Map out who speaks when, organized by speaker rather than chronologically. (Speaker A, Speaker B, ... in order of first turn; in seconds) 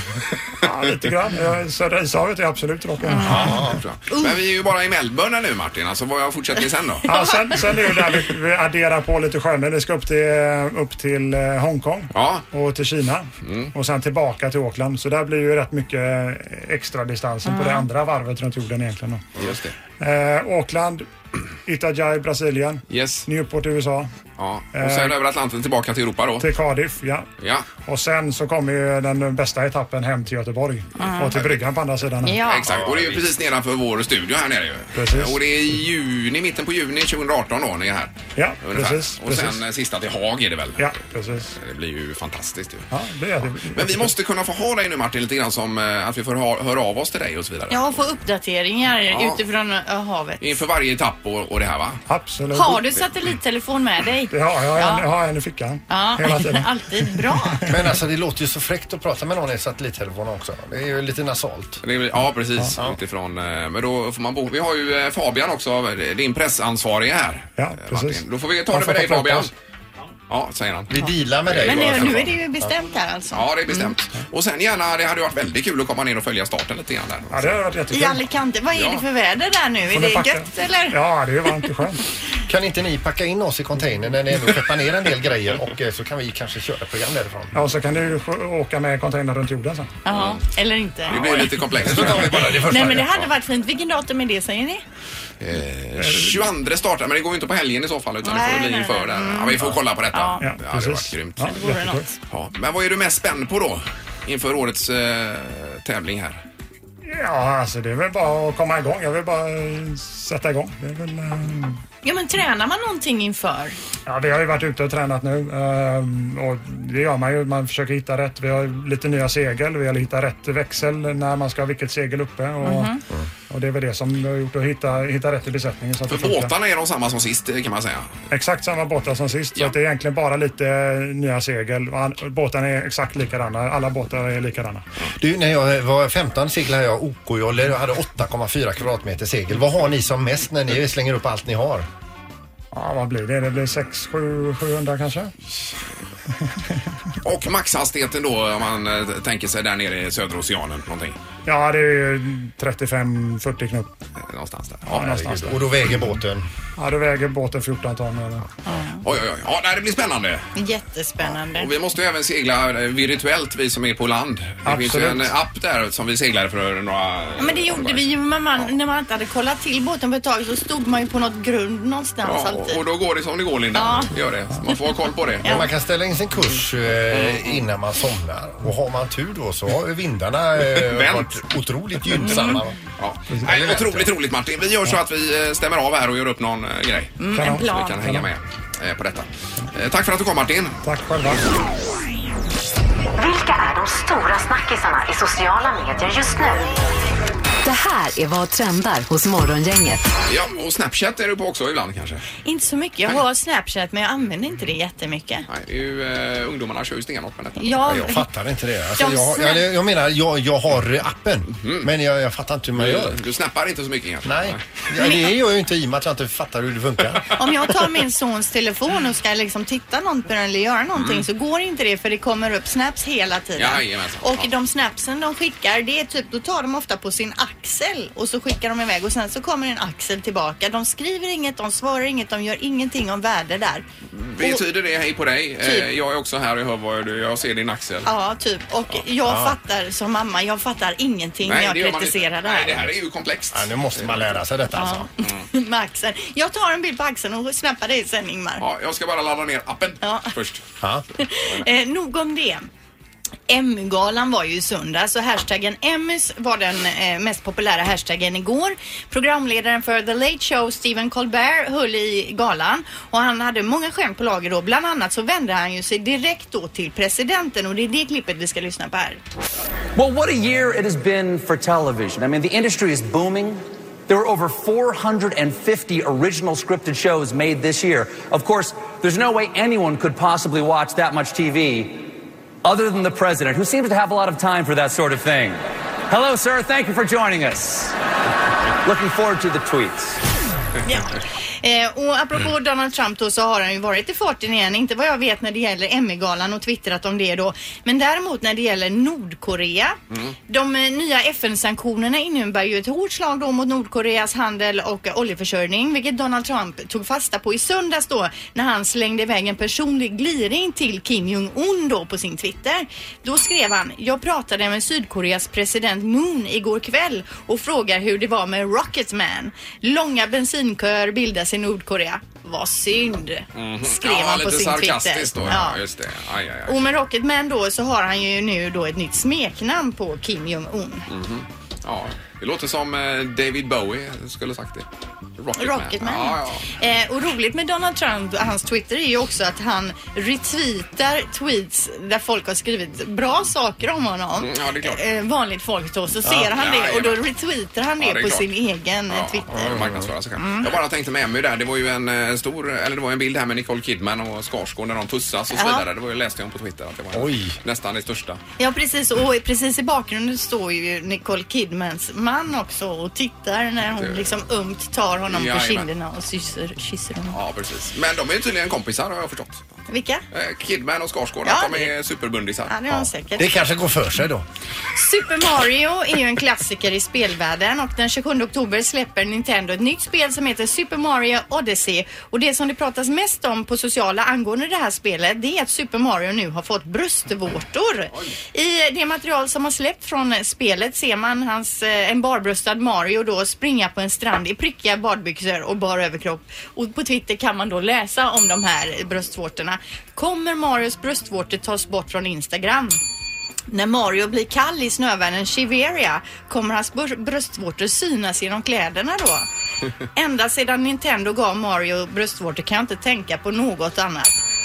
Speaker A: 0.6-3.6, 7.0-19.2, 20.0-21.1, 21.6-24.1, 24.7-25.1, 26.4-27.3, 27.8-32.4, 34.9-35.4, 38.4-39.6, 40.8-41.5, 42.9-44.1, 52.1-52.8, 54.3-57.9, 67.6-69.5, 77.3-78.2, 79.9-82.0, 87.5-89.9, 96.0-96.5, 100.4-102.1, 107.0-111.8, 114.0-126.5, 128.3-134.8, 142.7-145.3, 151.4-153.9, 154.8-156.0, 156.8-158.4, 164.7-165.3, 183.3-183.7, 187.3-188.3, 190.8-191.4
Speaker B: 3.0-4.4, 7.0-7.9, 17.4-17.9, 31.0-31.3, 32.2-32.7, 47.7-50.4, 52.5-55.0, 55.9-57.6, 71.0-73.9, 77.9-81.0, 90.0-91.6, 92.6-94.8, 98.2-100.5, 101.5-102.1, 112.0-113.8, 122.6-123.0, 158.7-159.0, 160.6-161.7, 167.4-172.8, 173.7-174.1, 175.4-175.7, 182.2-182.6, 187.2-188.0, 202.4-205.4, 207.6-208.2, 209.0-209.6, 217.3-233.8, 235.6-235.9, 238.0-242.8, 244.7-248.6, 250.0-250.3, 251.2-252.7, 253.5-269.2, 290.8-325.8, 326.7-331.1, 335.6-349.9, 350.4-350.7, 355.5-355.9, 358.6-367.4, 369.9-370.2, 371.4-371.9, 372.7-373.6, 374.9-403.0, 403.7-409.5, 410.1-414.4
Speaker C: 3.2-3.8, 32.7-33.1, 57.6-61.8, 70.9-72.7, 82.5-87.5, 91.7-93.2, 135.2-141.8, 155.2-156.4, 175.4-182.8, 183.4-184.1, 207.9-213.2, 214.2-217.4, 239.2-239.6, 243.5-245.1, 349.5-350.1, 357.1-357.6, 372.9-374.4
Speaker D: 3.7-7.1, 12.1-12.4, 13.4-13.7, 19.4-19.7, 22.9-23.3, 24.4-26.5, 27.4-27.6, 31.3-31.6, 32.4-41.0, 41.5-42.9, 43.5-47.9, 49.1-49.4, 50.4-52.0, 61.8-69.5, 70.3-70.9, 71.5-72.3, 73.3-77.6, 78.7-79.0, 90.1-90.4, 91.1-92.7, 95.4-101.6, 102.3-106.4, 126.1-128.1, 147.2-151.2, 154.2-155.5, 159.0-160.5, 161.4-168.1, 172.2-175.6, 177.1-177.6, 180.7-181.4, 183.0-190.8, 200.2-202.2, 205.5-208.1, 211.6-211.9, 212.7-214.7, 220.9-221.2, 223.6-224.5, 234.1-238.1, 241.4-244.2, 248.6-250.6, 323.5-326.8, 331.1-336.7, 344.4-345.0, 346.5-347.2, 348.0-348.5, 349.1-358.4, 364.0-364.2, 365.3-365.9, 367.3-369.6, 370.3-372.7
Speaker E: 193.2-196.7, 197.6-200.1
Speaker F: 269.9-282.1, 282.6-287.9, 288.8-290.2